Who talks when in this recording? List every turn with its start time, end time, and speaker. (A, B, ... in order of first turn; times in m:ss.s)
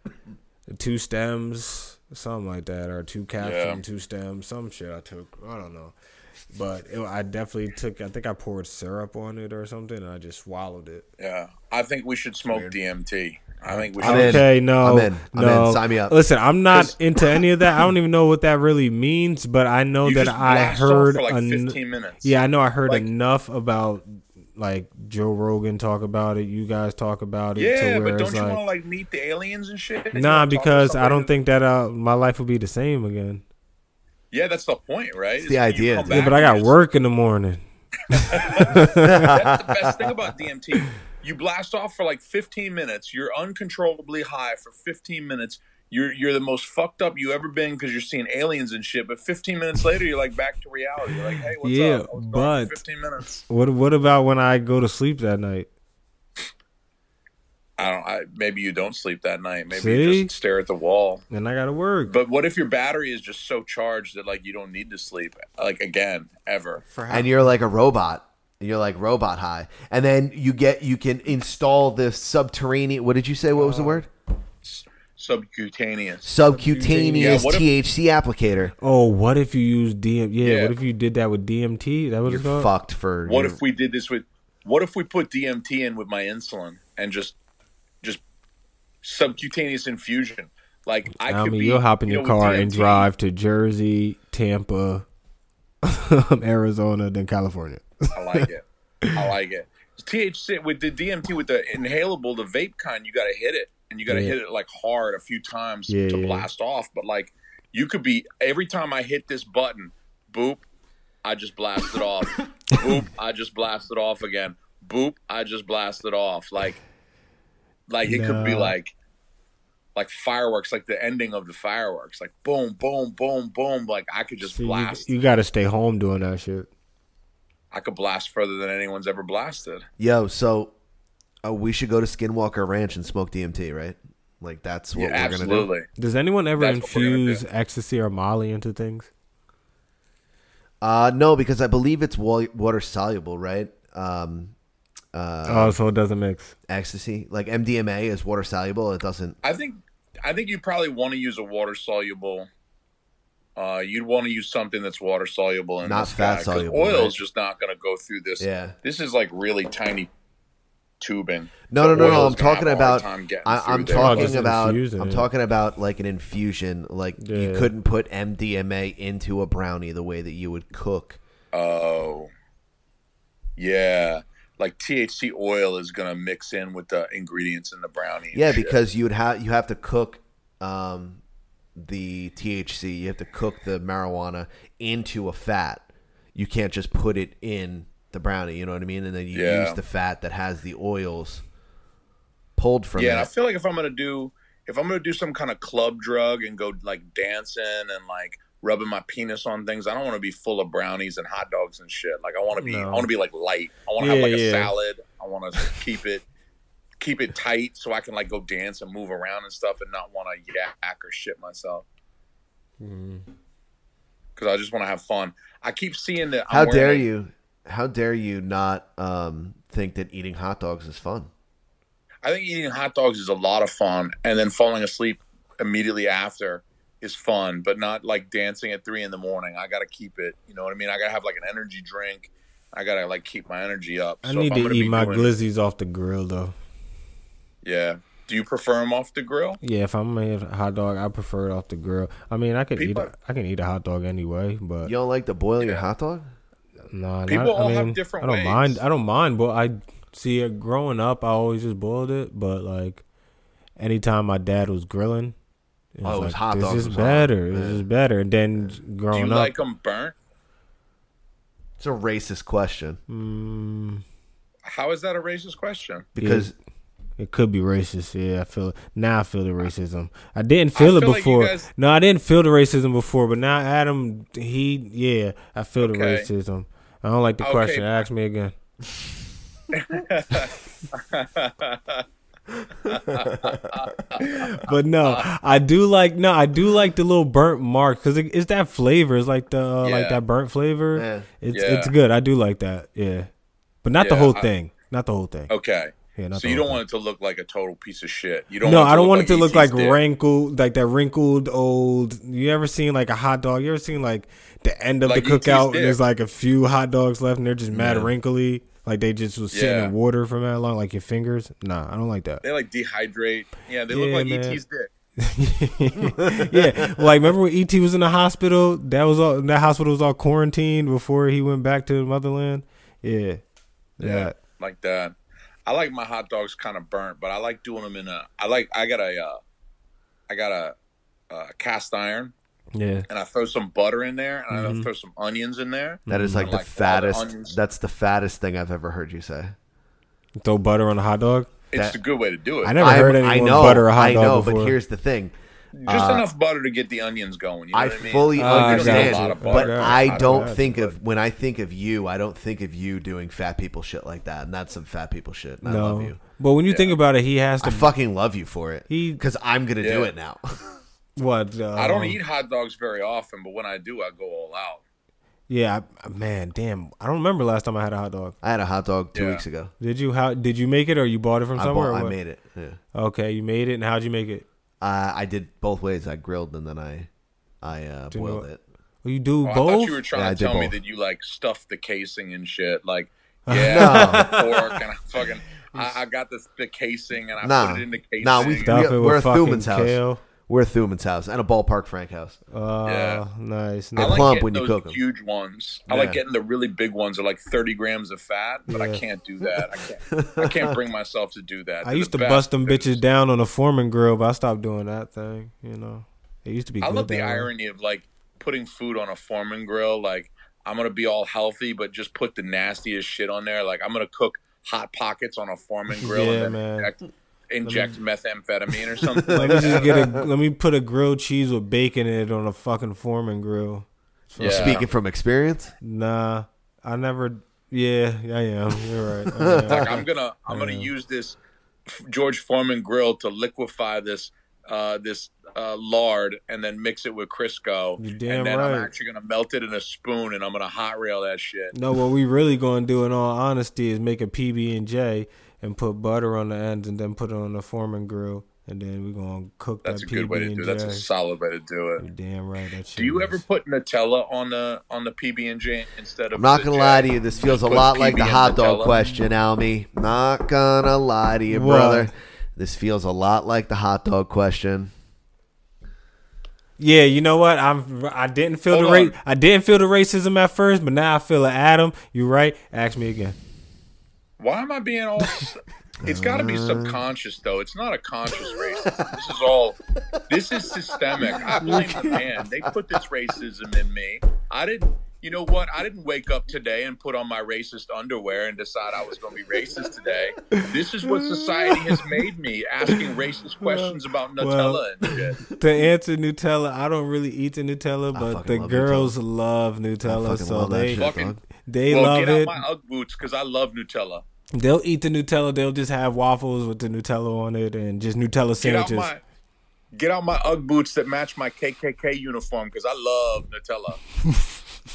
0:00.7-0:05.9 A
0:03.4-0:03.8 B
0:06.5-0:11.0 A
0:11.2-0:14.4 B
0:12.5-0:12.7 C
0:13.9-0:16.2 C
0:14.0-0:28.6 A
0:20.0-0:22.3 B
0:27.6-0:31.3 B
0:30.1-0:33.4 A
0:34.3-0:36.8 B
0:35.4-0:36.2 C
0:36.1-0:37.6 A
0:38.1-0:39.3 A
0:38.3-0:38.6 B
0:38.8-0:40.2 C
0:39.3-0:53.4 B
0:51.6-0:52.8 A
0:53.5-0:55.7 A
0:57.8-1:01.2 B
0:59.7-1:00.3 A
1:01.3-1:02.1 A
1:02.0-1:06.8 B
1:06.8-1:07.5 A
1:07.1-1:14.1 C
1:13.5-1:14.0 A
1:14.6-1:16.3 B
1:16.2-1:18.7 C
1:16.5-1:17.5 A
1:17.2-1:17.6 B
1:18.8-1:22.7 A
1:20.4-1:20.7 B
1:22.2-1:23.6 C
1:23.2-1:27.3 B
1:29.0-1:33.1 B
1:31.2-1:35.0 A
1:35.8-1:38.1 A
1:38.1-1:38.6 B
1:39.1-1:50.6 B
1:44.1-1:44.4 A
1:45.9-1:46.5 A
1:51.2-1:56.8 B
1:57.9-1:58.9 B
1:58.0-1:58.7 A
2:00.0-2:05.1 B
2:04.4-2:06.7 A
2:07.7-2:09.8 B
2:10.0-2:10.7 C
2:11.4-2:15.7 C
2:14.9-2:15.9 B
2:16.0-2:19.1 A
2:16.6-2:17.4 B
2:20.8-2:24.5 C
2:25.1-2:25.8 C
2:25.5-2:26.5 A
2:26.7-2:29.4 C
2:29.4-2:32.5 B
2:33.6-2:40.1 B
2:35.8-2:37.2 C
2:38.4-2:38.8 C
2:41.0-2:44.3 B
2:41.7-2:51.2 C
2:43.9-2:45.3 A
2:47.2-2:47.7 A
2:51.5-2:52.3 B
2:53.6-2:58.7 B
2:58.3-3:01.2 C
3:01.7-3:11.4 C
3:09.3-3:09.8 B
3:12.6-3:13.3 C
3:12.9-3:26.2 B
3:22.6-3:23.1 A
3:24.0-3:24.7 A
3:27.0-3:31.8 B
3:32.8-3:33.2 A
3:34.4-3:37.0 B
3:36.5-3:41.3 C
3:42.2-3:55.3 B
3:54.2-3:56.5 A
3:57.6-3:59.6 B
3:59.6-4:04.9 A
4:02.8-4:03.1 B
4:04.8-4:06.3 C
4:05.6-4:05.8 B
4:06.9-4:13.0 A
4:07.3-4:08.8 B
4:13.8-4:15.3 A
4:16.0-4:19.5 A
4:16.0-4:17.8 C
4:19.1-4:20.1 B
4:21.8-4:23.0 C
4:23.1-4:24.0 A
4:24.6-4:26.1 B
4:26.1-4:26.5 C
4:26.2-4:26.5 A
4:27.2-4:38.5 A
4:30.7-4:31.7 B
4:35.8-4:36.3 B
4:37.4-4:38.0 B
4:39.8-4:42.0 B
4:42.9-4:44.4 B
4:44.3-4:53.3 A
4:49.8-4:50.2 B
4:50.9-4:51.3 C
4:51.5-4:51.9 B
4:53.8-4:55.5 A
4:54.0-4:54.5 B
4:55.5-5:00.0 B
4:56.1-4:56.8 A
4:58.6-5:12.4 A
5:05.0-5:06.0 B
5:07.7-5:08.1 C
5:09.5-5:09.9 B
5:12.4-5:14.9 B
5:13.9-5:14.6 A
5:15.2-5:23.4 A
5:16.0-5:17.0 C
5:24.0-5:24.4 A
5:24.0-5:25.1 B
5:25.7-5:29.4 B
5:30.3-5:30.7 B
5:31.3-5:32.3 B
5:32.7-5:33.0 A
5:33.1-5:37.5 B
5:34.5-5:34.9 A
5:36.1-5:36.6 A
5:36.1-5:39.5 C
5:40.4-5:41.5 A
5:41.7-5:43.0 B
5:42.6-5:44.8 A
5:42.8-5:45.3 C
5:45.8-5:50.7 B
5:45.9-5:46.3 C
5:47.7-5:56.2 C
5:48.3-5:50.9 A
5:55.6-5:57.9 A
5:56.7-5:56.9 B
5:57.6-6:00.4 C
5:58.9-5:59.2 A
5:59.8-6:00.1 B
6:01.2-6:02.2 A
6:01.7-6:04.8 B
6:05.5-6:08.4 A
6:08.4-6:09.7 C
6:09.1-6:09.4 B
6:09.8-6:12.2 A
6:11.5-6:12.8 C
6:12.9-6:14.4 A
6:14.8-6:17.1 C
6:17.6-6:18.6 C
6:18.1-6:18.4 A
6:19.0-6:20.0 A
6:19.4-6:28.7 B
6:20.1-6:20.7 C
6:23.5-6:24.5 A
6:23.7-6:24.5 C
6:25.7-6:26.0 A
6:27.4-6:32.4 C
6:28.6-6:30.2 A
6:32.5-6:34.4 A
6:32.8-6:33.2 B
6:34.0-6:35.0 C
6:34.0-6:43.0 B
6:35.9-6:36.2 C
6:38.7-6:39.0 A
6:40.1-6:40.7 C
6:41.8-6:47.5 A
6:46.8-6:57.0 B
6:56.0-6:56.9 A
6:57.5-6:59.8 B
6:57.6-6:58.0 A
6:59.2-7:00.2 C
6:59.3-7:04.8 A
7:04.4-7:04.9 B
7:04.4-7:05.7 C
7:05.8-7:10.9 A
7:09.3-7:09.8 C
7:09.7-7:11.4 B
7:11.9-7:21.7 B
7:18.0-7:18.9 A
7:21.7-7:31.0 A
7:29.8-7:32.0 B
7:32.0-7:33.4 A
7:33.0-7:39.0 B
7:36.4-7:44.9 C
7:41.5-7:42.1 A
7:46.8-7:53.4 A
7:48.7-7:49.1 B
7:54.4-7:55.5 B
7:56.0-7:57.0 C
7:56.1-7:59.8 B
8:00.3-8:15.4 B
8:01.3-8:02.1 C
8:01.6-8:02.1 A
8:10.6-8:12.2 A
8:13.6-8:14.8 A
8:15.5-8:21.1 A
8:18.1-8:19.2 C
8:20.0-8:21.4 C
8:21.0-8:21.3 B
8:21.6-8:22.6 A
8:21.9-8:24.2 B
8:24.5-8:29.1 A
8:28.6-8:29.2 B
8:29.9-8:34.0 B
8:34.2-8:34.6 A